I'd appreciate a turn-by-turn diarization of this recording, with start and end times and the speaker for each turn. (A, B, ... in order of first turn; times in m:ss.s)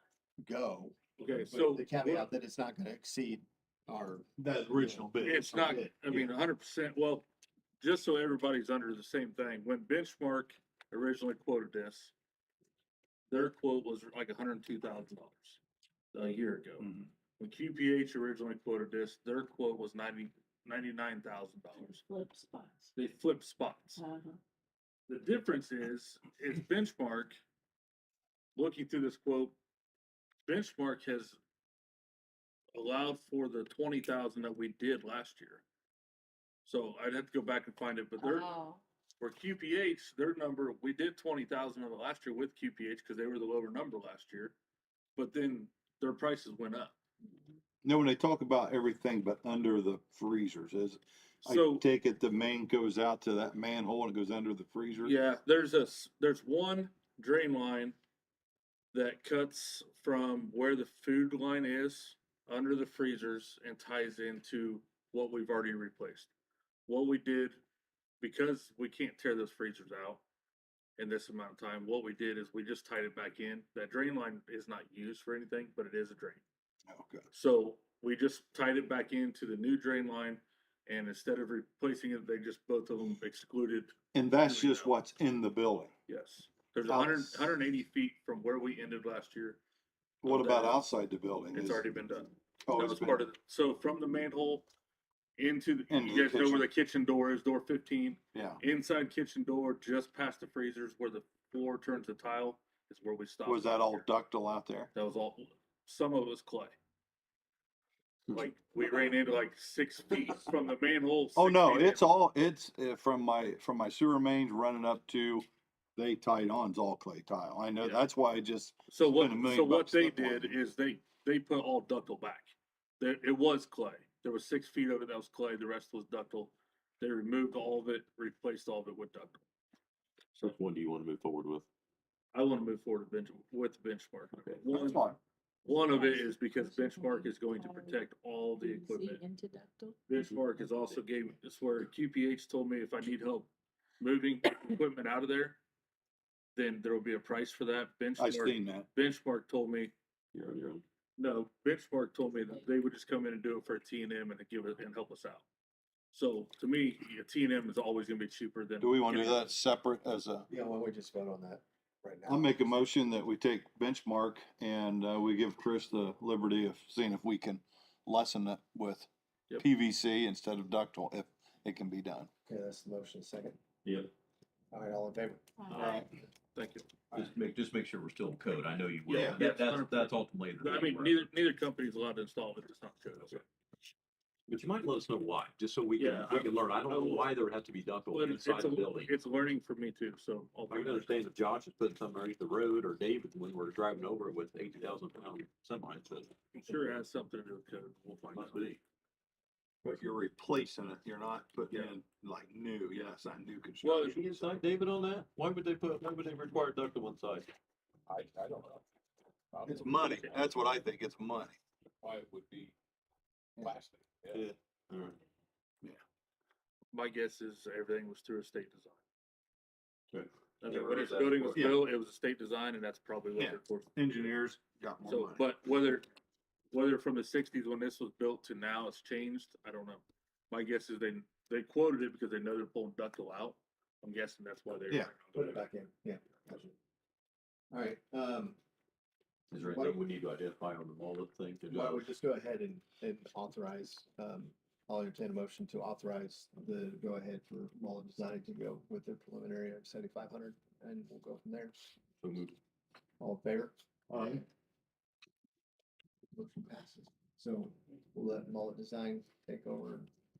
0:00.4-0:05.1 A
0:01.2-0:02.3 B
0:04.4-0:06.2 C
0:05.2-0:07.2 B
0:05.6-0:06.3 A
0:07.8-0:12.1 B
0:13.3-0:15.6 B
0:16.1-0:22.0 B
0:16.8-0:17.1 C
0:21.8-0:22.9 D
0:23.0-0:24.0 B
0:24.0-0:24.4 D
0:25.1-0:27.4 B
0:28.6-0:29.6 B
0:30.5-0:31.4 B
0:32.7-0:35.6 B
0:36.6-0:38.5 B
0:38.2-0:38.8 D
0:39.2-0:44.5 B
0:45.2-0:47.0 B
0:47.8-0:55.1 C
0:51.4-0:51.8 B
0:55.0-0:58.0 B
0:58.9-1:06.3 B
1:06.9-1:07.6 B
1:08.2-1:10.2 B
1:11.0-1:16.4 B
1:16.9-1:17.2 C
1:17.3-1:24.9 B
1:24.1-1:25.9 C
1:26.1-1:29.6 B
1:26.9-1:27.5 C
1:30.2-1:31.8 C
1:30.2-1:30.8 B
1:31.5-1:34.7 B
1:32.6-1:33.3 C
1:35.4-1:44.1 B
1:35.9-1:36.7 C
1:38.3-1:38.6 C
1:43.4-1:44.9 C
1:44.9-1:46.7 B
1:48.3-1:52.1 B
1:51.4-2:00.5 C
1:58.9-2:09.4 B
2:10.3-2:11.6 E
2:12.3-2:15.0 B
2:14.7-2:15.2 C
2:15.6-2:18.0 D
2:15.6-2:19.2 B
2:18.6-2:20.1 D
2:20.1-2:23.5 B
2:24.0-2:25.6 B
2:26.5-2:29.9 B
2:28.2-2:28.9 C
2:30.3-2:30.8 E
2:31.2-2:35.4 B
2:36.1-2:39.5 B
2:38.8-2:40.5 C
2:40.5-2:42.7 A
2:42.3-2:52.3 C
2:52.4-2:53.6 A
2:53.8-2:54.1 E
2:54.7-2:55.4 A
2:55.7-2:56.9 B
2:55.7-2:56.0 C
2:57.1-3:01.3 E
2:59.1-3:03.4 B
2:59.1-2:59.4 C
3:04.5-3:09.1 E
3:06.0-3:07.3 B
3:08.1-3:11.1 B
3:10.7-3:16.3 E
3:16.5-3:18.7 B
3:18.3-3:18.8 E
3:19.8-3:24.5 C
3:23.8-3:24.2 B
3:24.0-3:27.5 E
3:28.1-3:28.8 F
3:29.5-3:30.5 F
3:29.7-3:31.6 C
3:32.0-3:32.7 F
3:33.6-3:34.5 F
3:34.9-3:35.2 E
3:36.9-3:39.0 B
3:40.1-3:41.8 E
3:40.6-3:43.9 B
3:41.5-3:41.9 C
3:43.4-3:45.5 C
3:45.0-3:46.0 B
3:46.7-3:55.6 B
3:55.3-3:56.7 A
3:57.7-3:58.6 A
3:59.5-4:02.1 E
3:59.5-4:00.0 A
4:01.7-4:11.7 A
4:12.2-4:12.5 E
4:13.2-4:14.4 A
4:14.1-4:14.4 C
4:16.3-4:20.1 A